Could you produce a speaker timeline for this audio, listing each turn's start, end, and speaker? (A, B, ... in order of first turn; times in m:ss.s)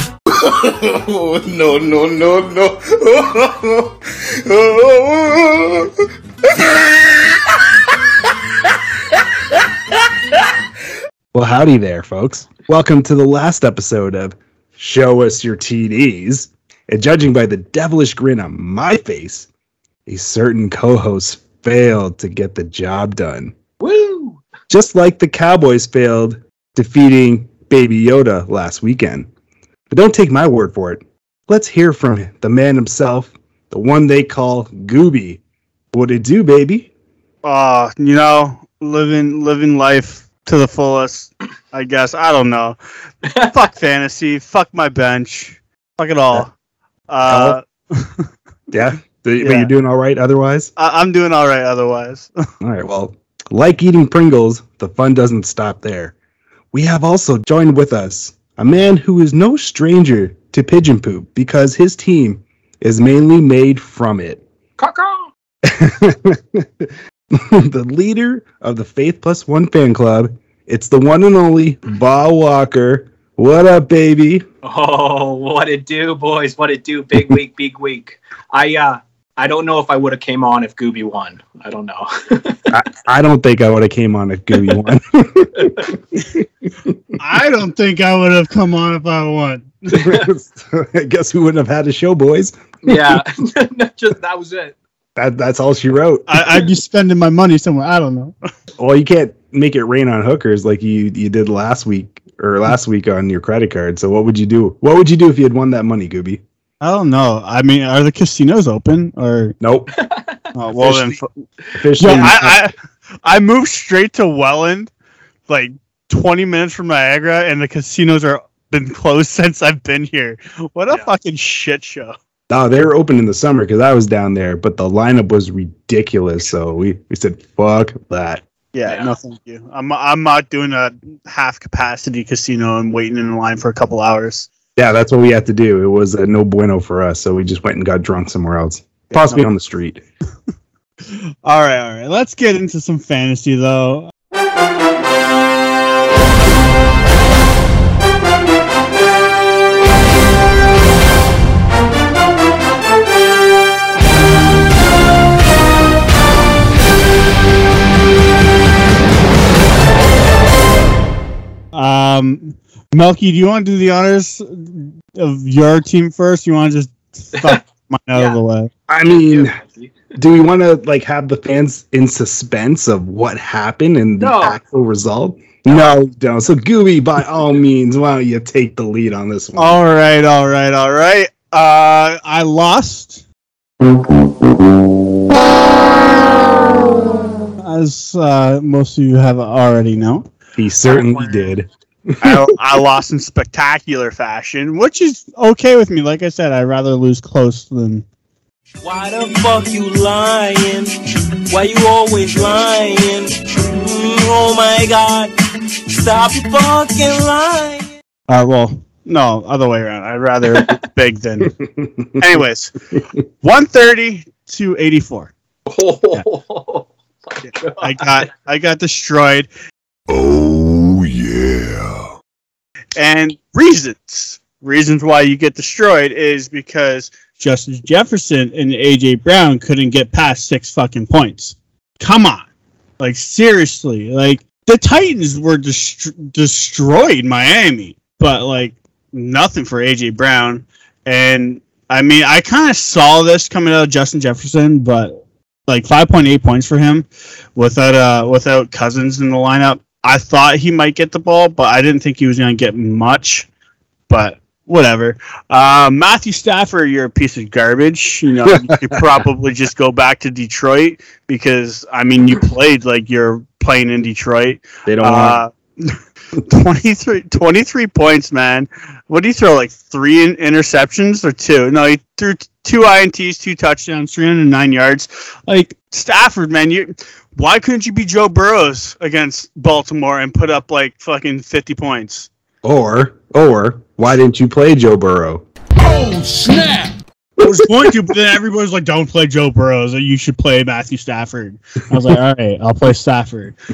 0:00.4-0:05.9 A
0:06.6-0:07.2 A
0:11.3-0:19.5 B
0:20.0-0:23.5 B
0:23.8-0:24.4 C
0:24.7-0:29.3 B
0:29.9-0:35.4 B
0:35.9-0:36.9 B
0:37.4-0:46.5 D
0:43.3-0:43.5 C
0:47.1-0:48.3 D
0:47.3-0:47.6 B
0:48.7-0:50.7 B
0:49.4-0:49.7 D
0:50.8-0:52.3 D
0:52.6-0:56.1 B
0:56.7-1:04.4 B
1:04.8-1:05.3 C
1:05.6-1:14.4 B
1:14.6-1:22.8 C
1:22.7-1:27.1 B
1:25.6-1:25.9 C
1:27.2-1:30.0 D
1:29.9-1:33.2 B
1:32.8-1:34.8 C
1:35.2-1:36.4 B
1:36.3-1:38.3 D
1:38.8-1:46.4 B
1:46.8-1:49.6 D
1:49.6-1:49.9 B
1:50.0-1:50.4 C
1:50.6-1:51.3 D
1:50.7-1:51.2 B
1:51.8-1:52.6 B
1:52.0-1:52.7 D
1:53.2-1:54.9 D
1:55.5-2:02.1 D
2:02.5-2:08.4 B
2:08.7-2:14.5 D
2:14.8-2:20.0 B
2:21.1-2:24.1 D
2:41.7-2:48.7 D
2:48.1-2:48.4 C
2:48.9-2:49.6 B
2:49.1-2:50.1 C
2:50.2-2:59.8 B
2:54.2-2:54.6 C
2:55.7-2:56.0 C
2:59.6-3:03.2 D
3:07.6-3:10.3 D
3:10.6-3:12.6 B
3:10.9-3:11.5 C
3:12.2-3:18.0 D
3:18.8-3:20.9 E
3:21.5-3:25.3 E
3:25.9-3:27.9 E
3:28.3-3:31.6 D
3:31.4-3:32.3 B
3:32.2-3:32.7 D
3:33.4-3:35.3 D
3:35.7-3:38.0 C
3:37.6-3:39.5 D
3:40.1-3:42.1 B
3:42.9-3:52.4 D
3:53.0-4:13.5 D
4:14.1-4:42.3 D
4:18.6-4:19.0 B
4:24.8-4:25.4 B
4:42.6-4:45.4 B
4:45.8-4:47.0 A
4:47.4-4:53.6 D